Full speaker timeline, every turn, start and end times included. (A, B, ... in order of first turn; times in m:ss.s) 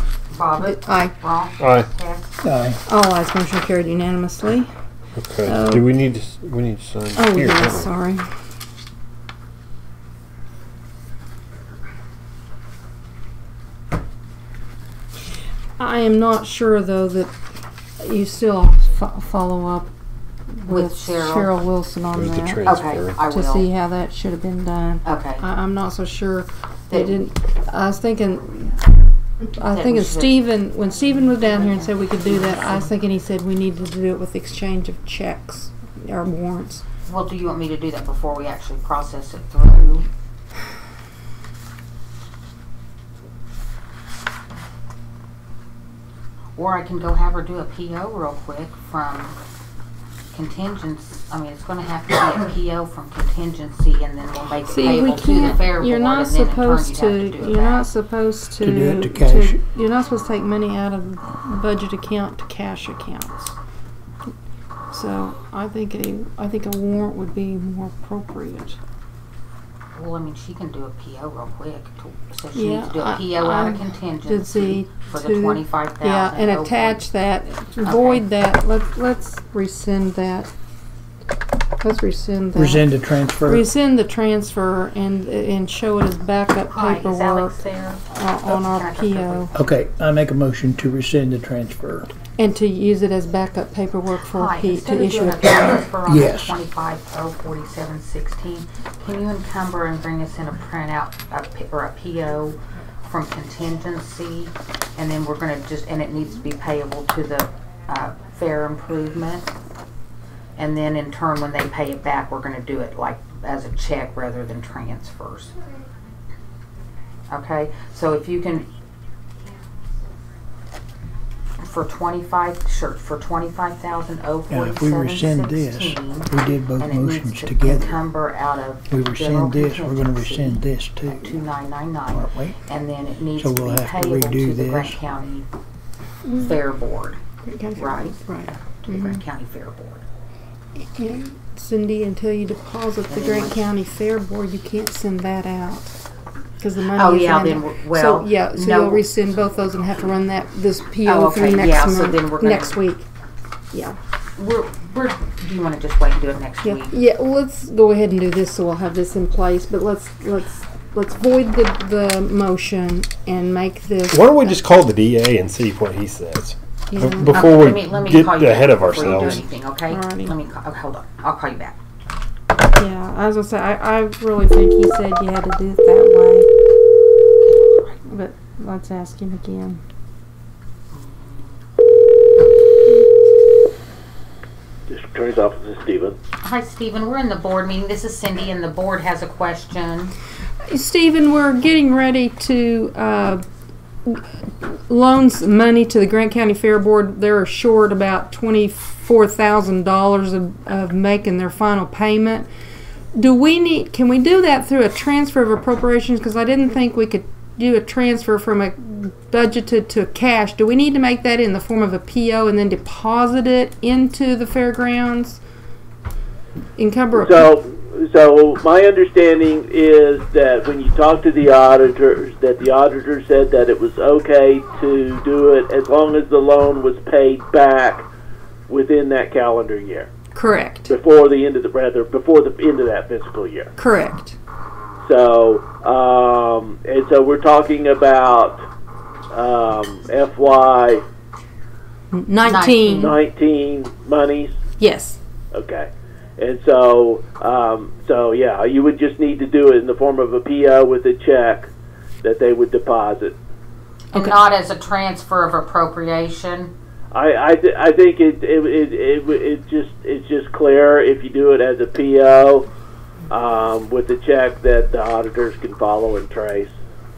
0:00.3-0:02.3 A
0:00.6-0:01.2 B
0:01.6-0:01.9 C
0:02.4-0:02.8 D
0:02.9-0:04.7 B
0:05.2-0:07.9 C
0:05.4-0:05.9 B
0:07.2-0:08.2 B
0:15.8-0:17.3 B
0:18.0-0:19.9 B
0:20.6-0:28.8 B
0:20.7-0:21.5 A
0:22.1-0:23.2 C
0:22.6-0:23.7 A
0:25.0-0:25.4 A
0:26.9-0:27.2 A
0:29.6-0:36.8 B
0:29.6-0:30.4 A
0:31.6-0:32.9 A
0:37.1-0:40.1 A
0:46.6-0:49.4 A
0:50.3-0:57.9 A
0:54.6-1:03.5 B
0:58.6-0:59.6 D
1:04.9-1:08.8 B
1:09.9-1:17.0 A
1:12.6-1:20.5 B
1:17.8-1:18.2 A
1:21.8-1:22.8 B
1:22.6-1:23.7 D
1:23.4-1:29.5 B
1:26.7-1:29.6 A
1:29.5-1:32.1 D
1:32.4-1:35.9 B
1:34.3-1:49.5 A
1:36.0-1:36.6 D
1:50.6-1:55.6 A
1:57.3-1:58.7 A
2:01.6-2:15.5 A
2:04.5-2:08.0 D
2:08.9-2:11.4 D
2:12.1-2:12.6 D
2:13.4-2:15.0 D
2:16.3-2:17.2 A
2:17.4-2:19.2 B
2:17.8-2:20.0 A
2:20.9-2:26.0 B
2:23.1-2:23.6 A
2:26.6-2:33.1 B
2:26.9-2:29.1 A
2:31.1-2:32.8 A
2:33.7-2:34.0 B
2:34.4-2:37.0 A
2:36.6-2:44.6 B
2:44.1-2:49.5 C
2:46.9-2:47.4 B
2:47.2-2:51.8 A
2:49.9-2:50.4 B
2:52.8-2:56.5 B
2:57.4-2:58.0 A
2:58.1-2:59.8 B
3:00.9-3:01.6 A
3:04.9-3:06.2 E
3:06.4-3:10.1 A
3:10.7-3:13.4 B
3:14.1-3:22.5 B
3:23.1-3:35.4 B
3:36.8-3:37.4 B
3:37.2-3:48.1 E
3:48.7-3:50.1 E
3:50.4-3:50.9 B
3:50.9-3:53.7 E
3:53.8-3:54.4 B
3:55.0-3:58.6 E
3:59.3-4:01.0 E
4:02.1-4:03.2 B
4:02.4-4:03.1 A
4:03.0-4:04.5 E
4:04.8-4:05.2 B
4:05.5-4:11.7 E
4:12.2-4:13.4 E
4:14.1-4:14.5 B
4:14.1-4:16.7 A
4:17.1-4:22.7 E
4:23.3-4:26.7 E